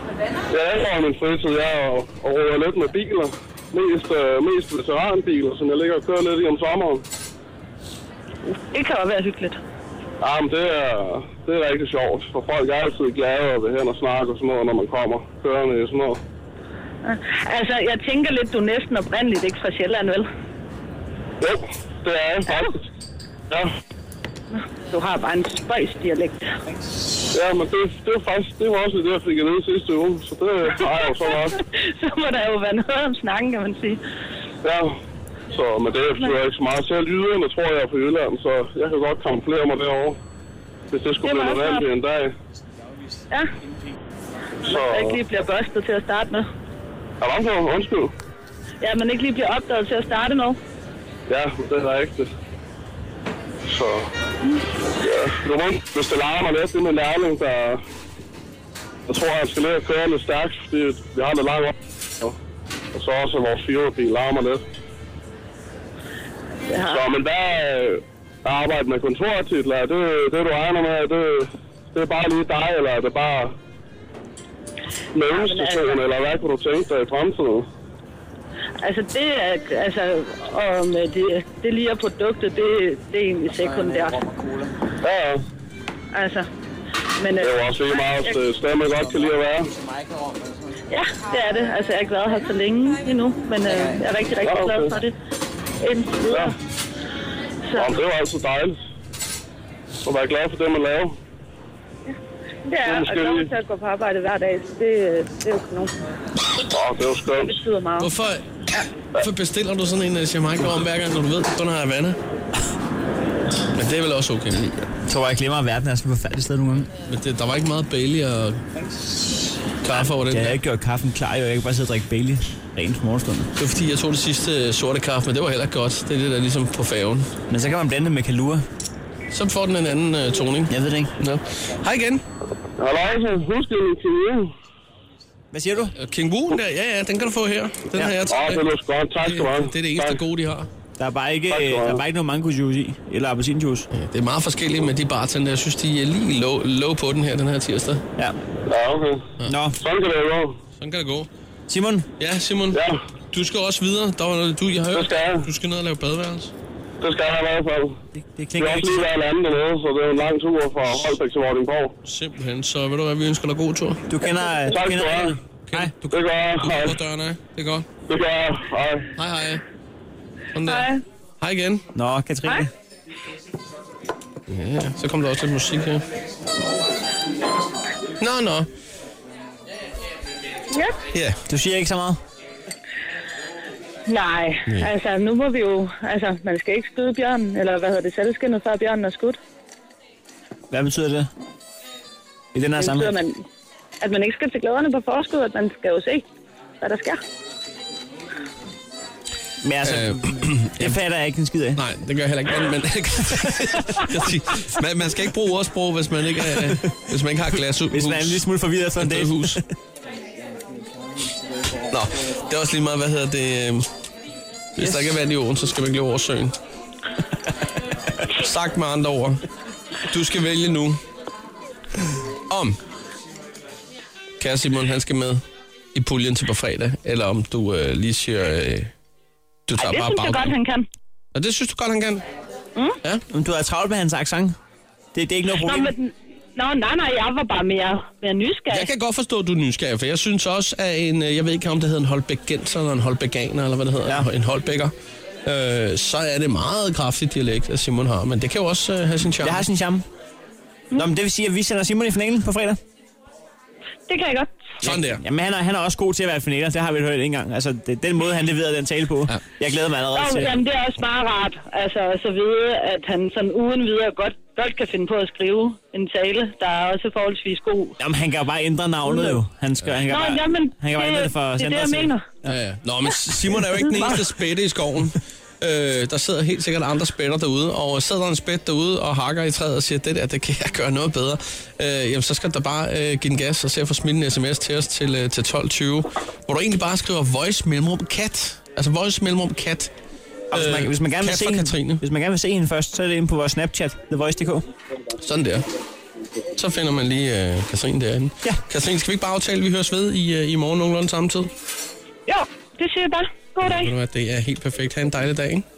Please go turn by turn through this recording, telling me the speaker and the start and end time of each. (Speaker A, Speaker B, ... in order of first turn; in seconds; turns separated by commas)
Speaker A: 0.5-7.0, Speaker B: 8.5-9.6, Speaker A: 10.2-16.2, Speaker B: 17.0-20.3, Speaker A: 21.4-22.7, Speaker B: 22.5-22.7, Speaker B: 24.5-26.5, Speaker A: 27.3-31.6, Speaker B: 30.7-34.0, Speaker A: 34.6-35.0, Speaker A: 35.5-40.2, Speaker A: 40.9-42.3, Speaker B: 41.2-41.9, Speaker A: 44.7-45.2, Speaker B: 44.7-46.5, Speaker A: 47.2-48.1, Speaker B: 48.8-50.6, Speaker A: 51.3-52.3, Speaker A: 53.6-54.1, Speaker A: 55.0-57.8, Speaker A: 59.1-62.4, Speaker A: 62.9-64.6, Speaker B: 66.7-67.0, Speaker A: 66.8-73.5, Speaker A: 75.2-77.7, Speaker B: 75.3-76.0, Speaker B: 78.8-84.2, Speaker A: 85.0-85.4, Speaker B: 86.1-86.5, Speaker B: 87.2-88.4, Speaker A: 87.4-89.7, Speaker B: 90.9-95.1, Speaker A: 94.4-95.0, Speaker B: 95.8-96.5, Speaker A: 96.3-96.5, Speaker B: 97.7-98.0, Speaker A: 97.8-98.8, Speaker A: 100.0-101.2, Speaker B: 102.7-105.9, Speaker A: 102.8-103.5, Speaker A: 106.7-107.6, Speaker B: 107.3-108.1, Speaker C: 108.0-108.5, Speaker C: 109.2-112.2, Speaker C: 113.8-114.6, Speaker D: 114.6-116.9, Speaker C: 117.1-118.6, Speaker C: 119.8-120.6, Speaker D: 119.9-123.5, Speaker C: 123.6-127.3, Speaker D: 127.5-128.7, Speaker C: 129.3-132.2, Speaker D: 130.7-131.1, Speaker A: 132.8-134.5, Speaker D: 135.5-135.9, Speaker C: 136.0-138.7, Speaker A: 138.3-140.2, Speaker C: 139.2-140.7, Speaker D: 141.0-143.9, Speaker A: 141.5-142.0, Speaker C: 143.9-148.0, Speaker A: 148.7-150.6, Speaker D: 149.4-149.8, Speaker C: 150.8-151.3, Speaker D: 151.7-152.1, Speaker C: 152.2-156.5, Speaker A: 152.7-153.0, Speaker A: 154.9-155.5, Speaker A: 157.0-158.0, Speaker D: 158.2-159.0, Speaker A: 158.6-161.9, Speaker C: 162.1-164.1, Speaker D: 164.1-165.9, Speaker A: 164.7-165.4, Speaker C: 165.7-167.9, Speaker A: 166.1-166.9, Speaker A: 168.1-169.1, Speaker C: 169.2-169.6, Speaker C: 170.6-171.9, Speaker B: 170.6-171.0, Speaker D: 171.9-172.7, Speaker C: 174.5-176.0, Speaker C: 178.2-178.7, Speaker B: 180.7-181.0, Speaker C: 181.1-181.4, Speaker D: 181.5-182.2, Speaker B: 184.1-189.4, Speaker D: 190.7-191.3, Speaker D: 192.6-193.1, Speaker B: 192.8-193.4, Speaker B: 194.0-196.2, Speaker B: 196.8-197.2, Speaker D: 199.6-201.8, Speaker C: 199.8-201.0, Speaker C: 201.8-208.5, Speaker D: 203.7-204.1, Speaker D: 207.9-209.6, Speaker C: 209.0-209.6, Speaker C: 211.9-213.9, Speaker C: 214.8-216.6, Speaker D: 214.8-215.2, Speaker C: 218.2-219.4, Speaker C: 220.1-221.0, Speaker C: 222.5-222.8, Speaker C: 224.4-225.4, Speaker C: 225.9-228.9, Speaker C: 229.7-230.6, Speaker B: 229.8-230.9, Speaker C: 231.3-232.2, Speaker D: 233.3-234.6, Speaker D: 235.2-235.9, Speaker B: 235.6-238.9, Speaker C: 238.7-244.9, Speaker C: 245.4-249.7, Speaker D: 249.4-250.1, Speaker D: 250.9-252.8, Speaker B: 254.1-254.6, Speaker C: 254.8-255.2, Speaker D: 254.8-260.5, Speaker B: 260.1-268.0, Speaker D: 268.0-272.6, Speaker B: 269.1-269.4, Speaker B: 270.1-272.2, Speaker C: 272.5-289.9, Speaker B: 273.9-274.2, Speaker D: 290.5-294.7, Speaker C: 290.5-292.0, Speaker C: 295.2-295.7, Speaker C: 296.6-301.5, Speaker B: 302.3-303.9, Speaker C: 303.6-305.6